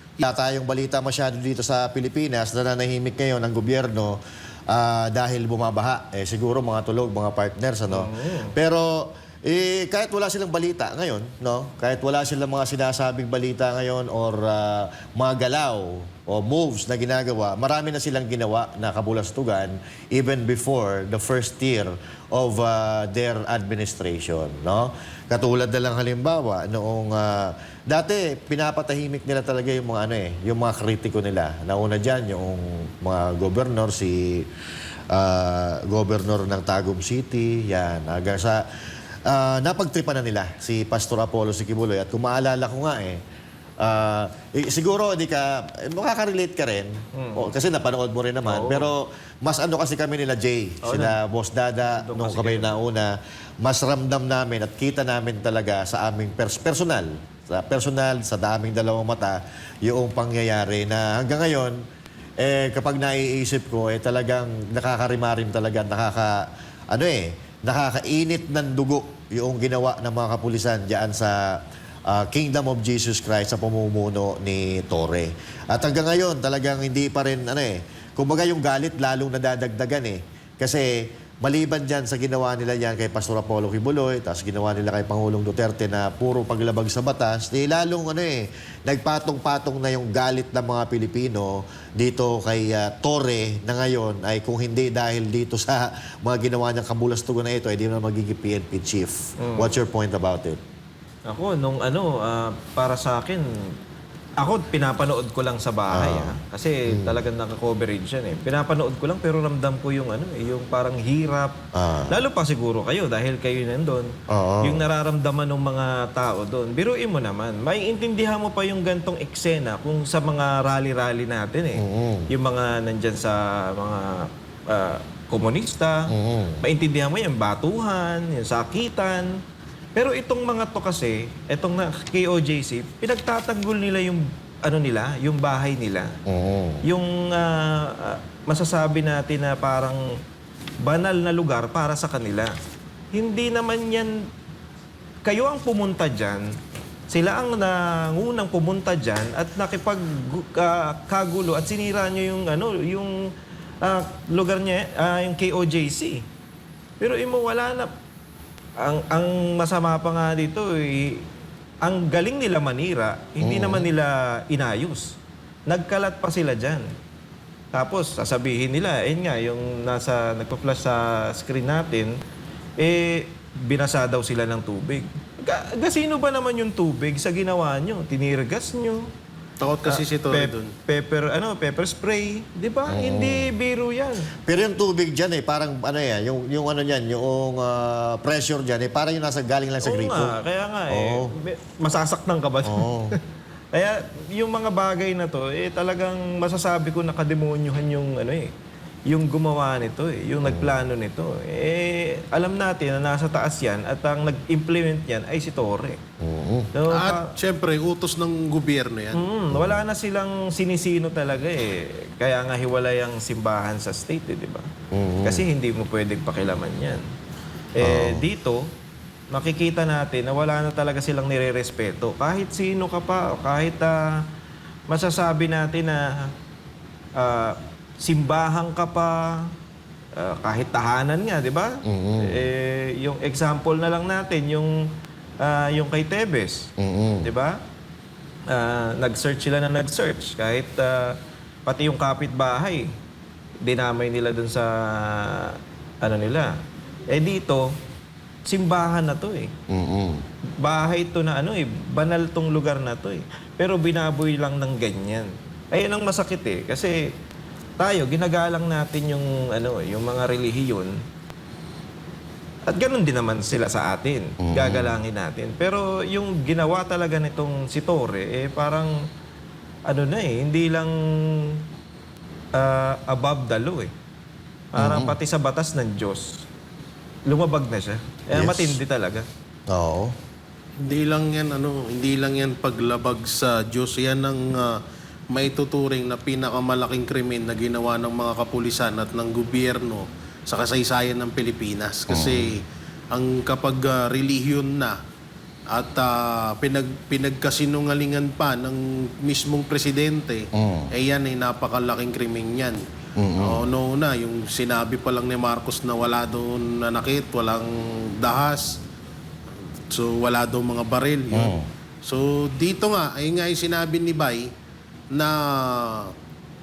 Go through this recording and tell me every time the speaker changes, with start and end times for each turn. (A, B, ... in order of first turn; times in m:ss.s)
0:00.2-0:04.2 A
0:04.7-0:34.5 A
0:07.9-0:08.5 B
0:35.1-0:38.7 A
0:39.3-0:43.2 A
0:43.8-1:01.8 A
0:47.2-0:47.5 B
0:48.4-0:48.9 B
0:50.8-0:51.2 B
0:51.8-0:52.7 B
1:02.4-1:40.6 A
1:39.4-1:39.8 B
1:41.3-1:43.5 B
1:44.4-1:51.6 B
1:45.9-1:46.3 A
1:46.9-1:47.2 A
1:51.7-1:52.2 A
1:52.1-1:54.1 B
1:54.3-1:54.9 A
1:54.6-2:09.3 B
2:01.8-2:02.3 A
2:06.1-2:06.6 A
2:10.0-2:16.2 B
2:16.3-2:16.8 A
2:16.8-2:20.0 B
2:20.8-2:22.5 B
2:23.1-2:24.3 B
2:25.2-2:26.5 B
2:27.1-2:33.2 B
2:33.8-2:36.2 B
2:37.0-2:37.9 B
2:38.8-2:41.2 B
2:41.8-2:46.9 B
2:43.4-2:43.9 A
2:47.7-2:52.2 B
2:52.8-2:59.1 B
2:59.6-3:00.7 C
2:59.9-3:04.3 B
3:02.9-3:03.5 A
3:04.4-3:10.4 A
3:09.8-3:13.2 B
3:10.9-3:11.3 A
3:12.6-3:13.2 A
3:13.7-3:18.5 B
3:19.1-3:26.0 B
3:20.4-3:20.8 A
3:26.2-3:26.7 A
3:26.7-3:27.3 B
3:26.9-3:29.2 C
3:29.1-3:34.7 B
3:29.5-3:29.8 A
3:34.9-3:35.4 A
3:35.2-3:37.0 B
3:37.8-3:38.7 B
3:37.8-3:38.2 A
3:39.3-3:44.2 B
3:44.9-3:46.3 B
3:47.2-3:49.5 B
3:50.2-3:54.7 B
3:51.8-3:52.4 A
3:55.4-3:56.7 B
3:56.8-3:57.3 A
3:57.2-3:57.6 B
3:58.5-4:02.9 B
4:03.6-4:06.5 B
4:07.1-4:07.7 B
4:08.5-4:09.5 B
4:09.7-4:10.2 A
4:10.6-4:17.1 B
4:17.8-4:20.9 B
4:22.7-4:28.9 B
4:24.4-4:25.0 A
4:29.9-4:31.6 B
4:32.6-4:33.9 B
4:34.7-4:36.5 B
4:34.8-4:35.2 A
4:37.3-4:39.3 B
4:38.3-4:38.8 A
4:39.7-4:40.1 A
4:40.8-4:55.0 C
4:52.1-4:52.5 A
4:55.7-5:02.8 C
5:00.6-5:00.9 A
5:03.2-5:03.6 A
5:03.4-5:08.8 C
5:09.9-5:14.5 C
5:11.3-5:11.7 A
5:15.1-5:16.1 C